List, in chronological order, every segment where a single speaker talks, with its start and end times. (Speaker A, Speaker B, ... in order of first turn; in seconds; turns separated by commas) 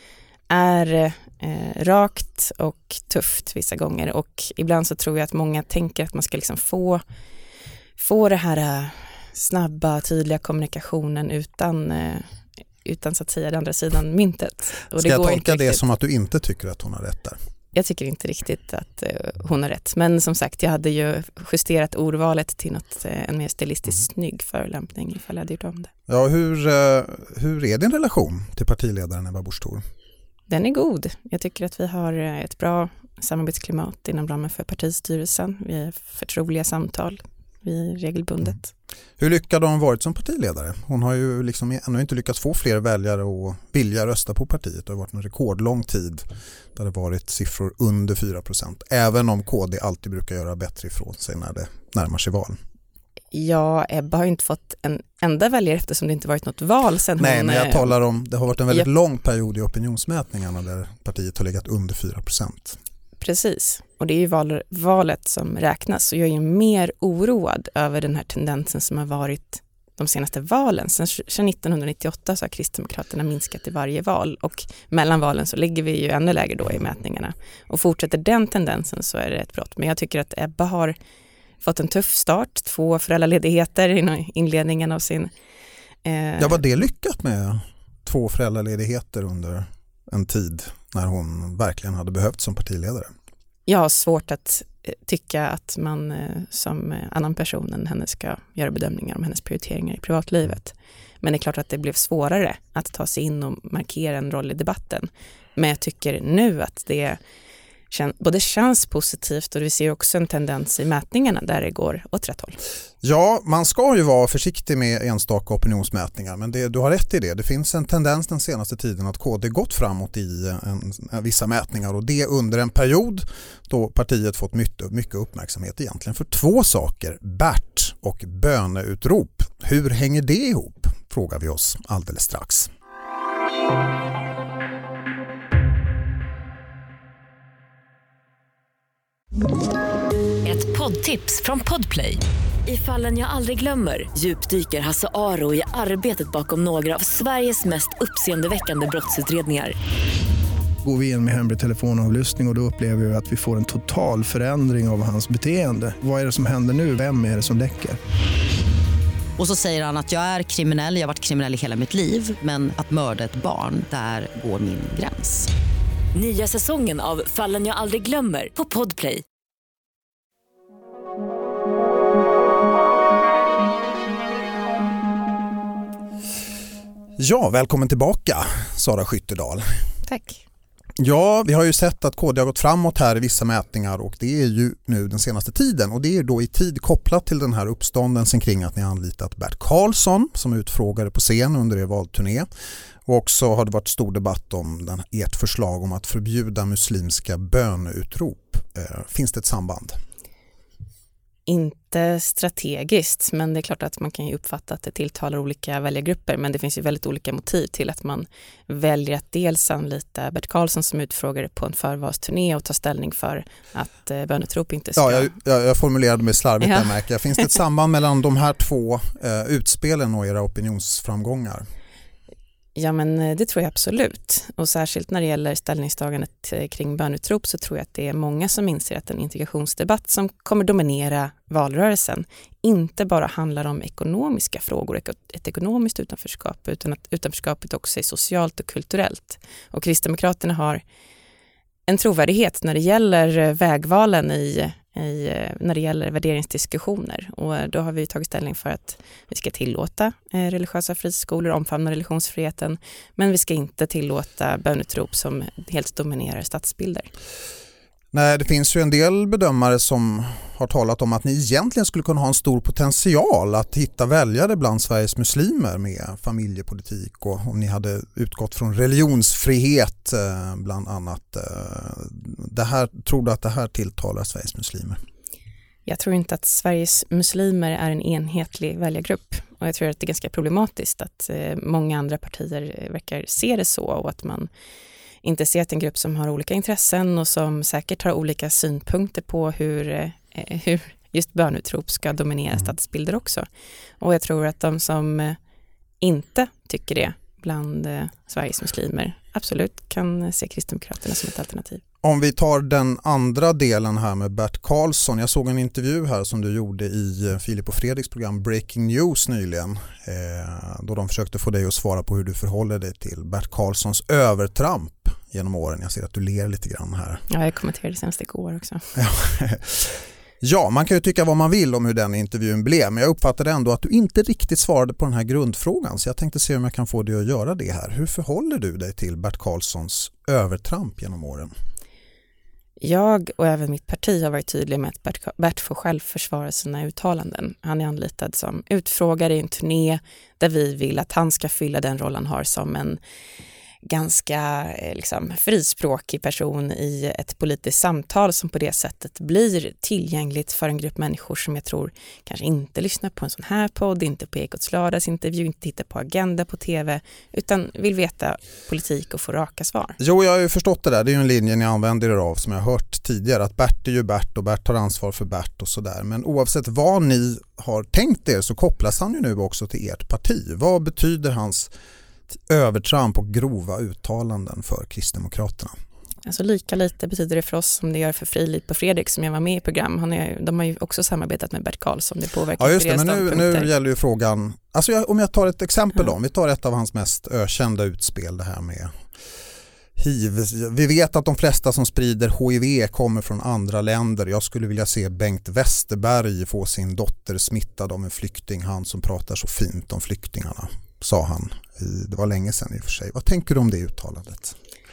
Speaker A: 0.5-7.0, Speaker A: 8.0-12.3, Speaker A: 12.8-15.8, Speaker B: 14.9-17.4, Speaker A: 17.7-25.9, Speaker B: 26.1-29.8, Speaker A: 30.5-38.7, Speaker B: 39.2-46.2, Speaker B: 46.8-52.6, Speaker A: 53.3-58.0, Speaker B: 57.2-62.8, Speaker A: 63.2-80.9, Speaker A: 81.6-85.3, Speaker A: 86.0-86.6, Speaker B: 86.4-93.1, Speaker A: 93.7-107.2, Speaker A: 107.9-112.6, Speaker B: 113.0-132.7, Speaker C: 140.4-149.8, Speaker D: 150.8-158.0, Speaker E: 159.4-165.5, Speaker C: 166.1-169.2, Speaker B: 177.2-179.6, Speaker A: 180.1-180.4, Speaker B: 181.0-192.5, Speaker B: 193.1-200.0, Speaker A: 201.5-215.3, Speaker B: 215.0-221.6, Speaker A: 216.6-216.9, Speaker A: 222.8-240.8, Speaker A: 241.9-257.1, Speaker B: 258.1-275.0, Speaker A: 275.9-284.5, Speaker A: 285.2-293.4, Speaker A: 294.0-295.4, Speaker A: 296.0-301.8, Speaker B: 302.0-317.2, Speaker A: 317.3-318.9, Speaker B: 318.9-331.5, Speaker A: 332.8-343.0, Speaker A: 343.8-360.0, Speaker B: 360.0-371.7, Speaker B: 372.3-375.7, Speaker A: 376.2-383.7, Speaker B: 382.6-388.9, Speaker B: 390.0-404.5